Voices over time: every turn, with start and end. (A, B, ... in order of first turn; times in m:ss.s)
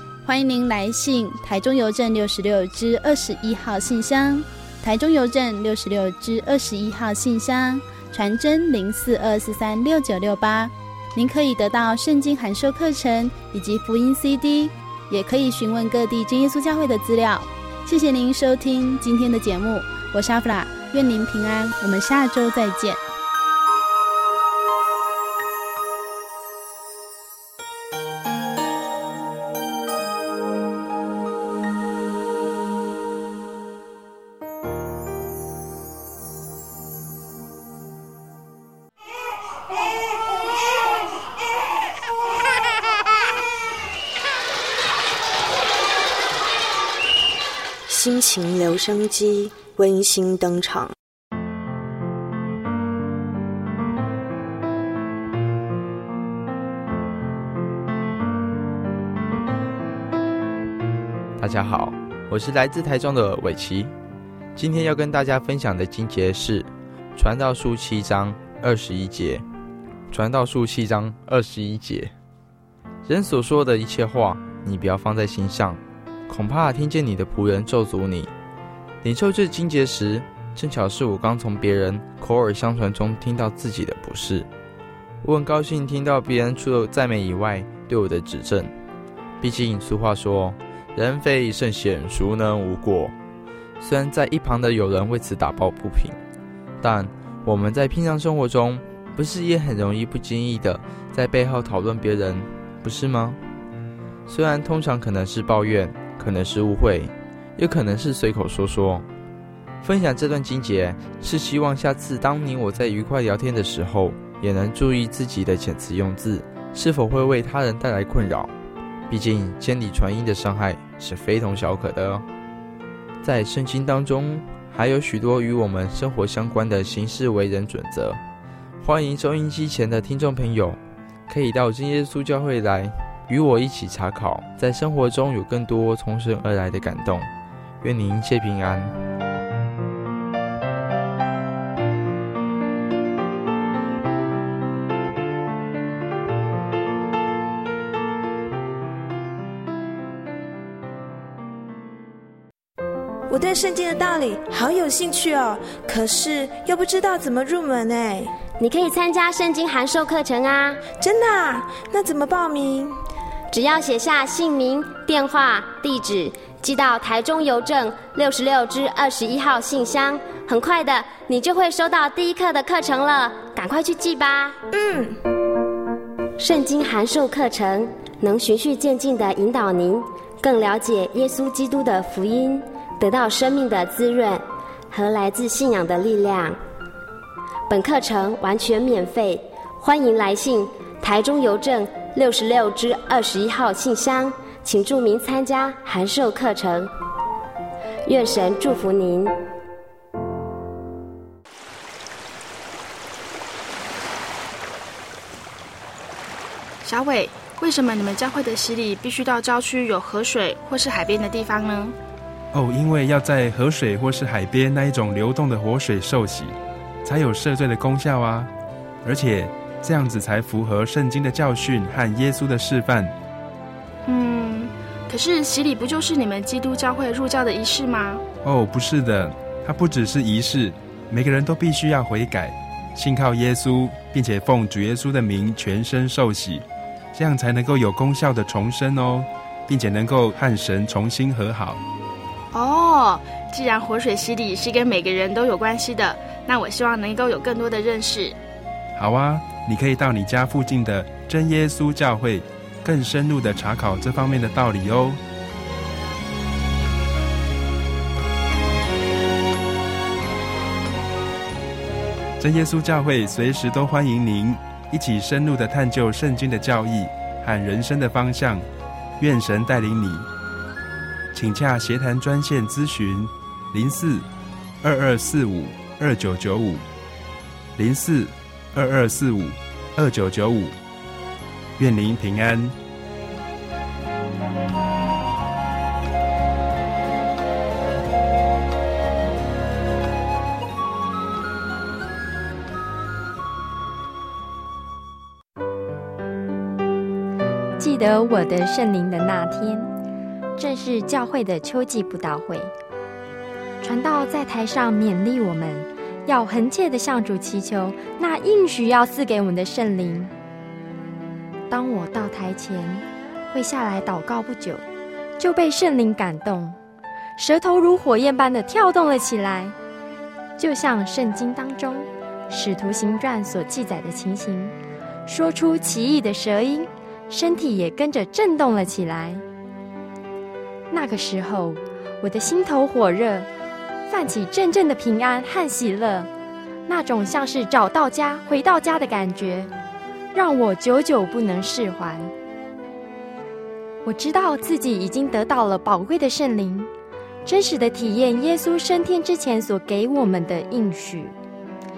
0:00.3-0:23.0 A
0:47.9-0:50.9 B
1:01.4-1:03.9 C
1:04.6-1:09.4 C
1:10.1-1:12.1 C
1:13.0-1:18.3 C
1:19.0-1:24.5 C
1:25.2-1:28.7 C
1:29.4-1:33.1 C
1:33.8-1:36.2 C
1:36.8-1:43.4 C
1:44.3-1:49.1 C
1:49.8-1:58.5 C
1:59.1-2:02.2 C
2:03.2-2:08.2 C
2:08.8-2:17.3 C
2:17.8-2:18.9 C
2:33.3-2:38.3 D
2:38.6-2:40.8 E
2:41.0-2:43.0 D
2:43.5-2:54.6 E
2:54.7-2:55.1 D
2:56.4-3:06.6 E
3:07.7-3:16.9 E
3:18.1-3:19.3 E
3:26.8-3:32.0 F
3:32.5-3:38.5 G
3:39.0-3:43.1 G
3:44.1-3:48.2 F
3:48.4-4:01.8 G
4:02.5-4:08.4 F
4:09.0-4:15.2 G
4:22.4-4:28.7 G
4:29.2-4:30.3 G
4:31.3-4:34.3 G
4:34.8-4:36.8 G
4:37.8-4:40.8 G
4:41.8-4:42.8 G
4:57.8-4:59.9 H
5:00.6-5:02.7 H
5:03.8-5:10.3 H
5:11.7-5:14.8 H
5:15.4-5:16.8 H
5:17.4-5:19.7 H
5:20.6-5:24.8 H
5:25.3-5:29.4 H
5:30.9-5:33.5 H
5:34.1-5:36.3 H
5:36.9-5:39.7 H
5:40.4-5:42.3 H
5:44.0-5:46.9 H
5:47.5-5:51.4 H